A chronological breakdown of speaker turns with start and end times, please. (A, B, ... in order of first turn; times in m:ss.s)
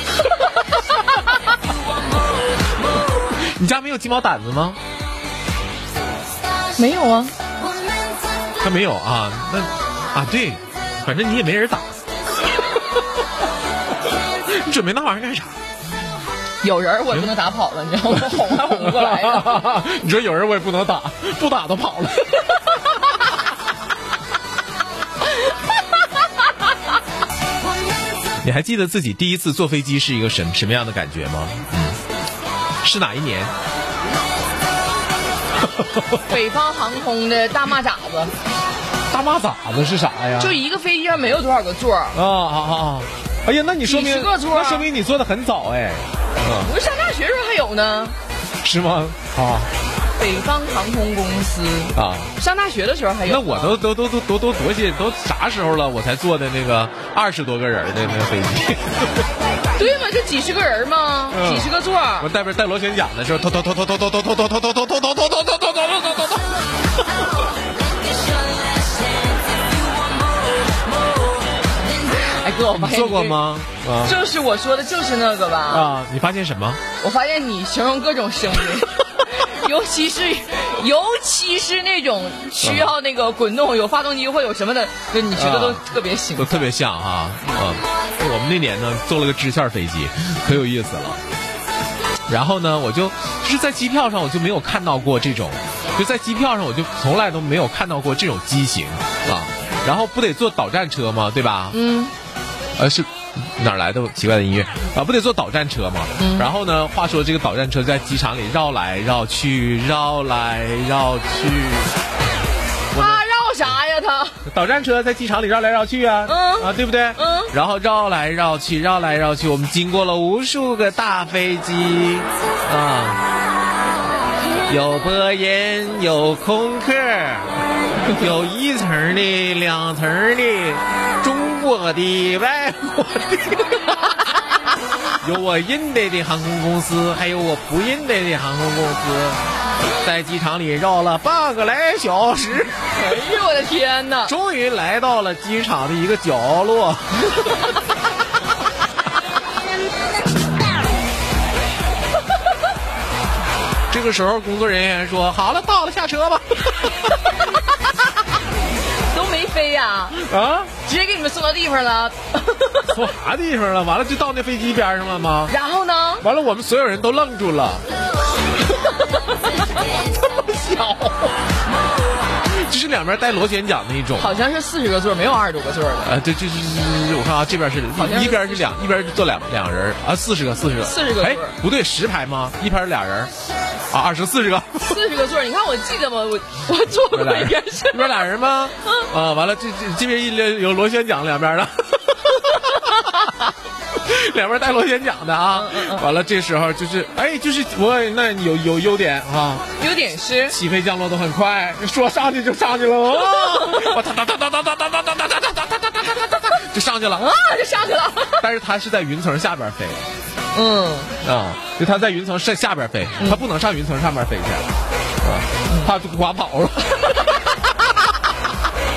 0:03.3-0:04.8 A
0:06.8-0:07.3 B
0:08.6-0:12.0 A
0:14.4-0:15.6 A
0:16.6-0:19.6 B
0:18.1-0:22.6 A
0:28.4-0:32.0 A
0:32.8-0:33.5 A
0:36.2-0:38.3 B
0:39.1-0:40.6 A
0:40.4-0:42.2 B
0:42.1-0:46.7 A
0:43.8-0:44.9 B
0:46.6-0:48.2 B
0:48.6-0:49.7 A
0:50.1-0:53.8 B
0:51.9-0:52.3 A
0:53.2-0:59.3 A
0:59.7-1:02.3 B
1:01.3-1:06.5 A
1:12.1-1:13.4 B
1:12.8-1:14.2 A
1:14.0-1:15.9 B
1:15.7-1:16.8 A
1:17.0-1:26.7 B
1:22.6-1:22.9 A
1:25.3-1:25.8 A
1:26.4-1:31.2 A
1:32.3-1:41.8 A
1:41.7-1:42.1 B
1:42.8-1:51.9 A
1:46.2-1:46.5 B
1:52.9-1:53.2 A
1:52.9-1:54.4 B
1:54.4-2:03.2 A
1:56.2-1:57.5 B
2:04.7-2:14.1 A
2:15.2-2:19.4 A
2:20.0-2:22.8 A
2:22.9-2:24.3 B
2:24.2-2:27.4 A
2:33.9-2:37.0 A
2:37.3-2:37.8 B
2:39.0-2:43.0 B
2:40.2-2:40.7 A
2:42.9-2:45.5 A
2:45.5-2:46.3 B
2:46.2-2:47.8 A
2:48.7-2:49.4 B
2:50.1-2:51.3 A
2:52.4-2:54.4 A
2:54.2-2:56.1 B
2:56.0-3:03.3 A
2:57.9-2:58.8 B
3:00.8-3:01.6 B
3:03.9-3:05.0 A
3:04.8-3:08.2 B
3:07.1-3:19.6 A
3:15.5-3:16.0 B
3:19.8-3:20.6 B
3:20.5-3:27.3 A
3:27.1-3:28.4 B
3:28.3-3:30.0 A
3:30.5-3:31.2 B
3:31.2-3:34.7 A
3:35.2-3:37.7 A
3:35.7-3:35.9 B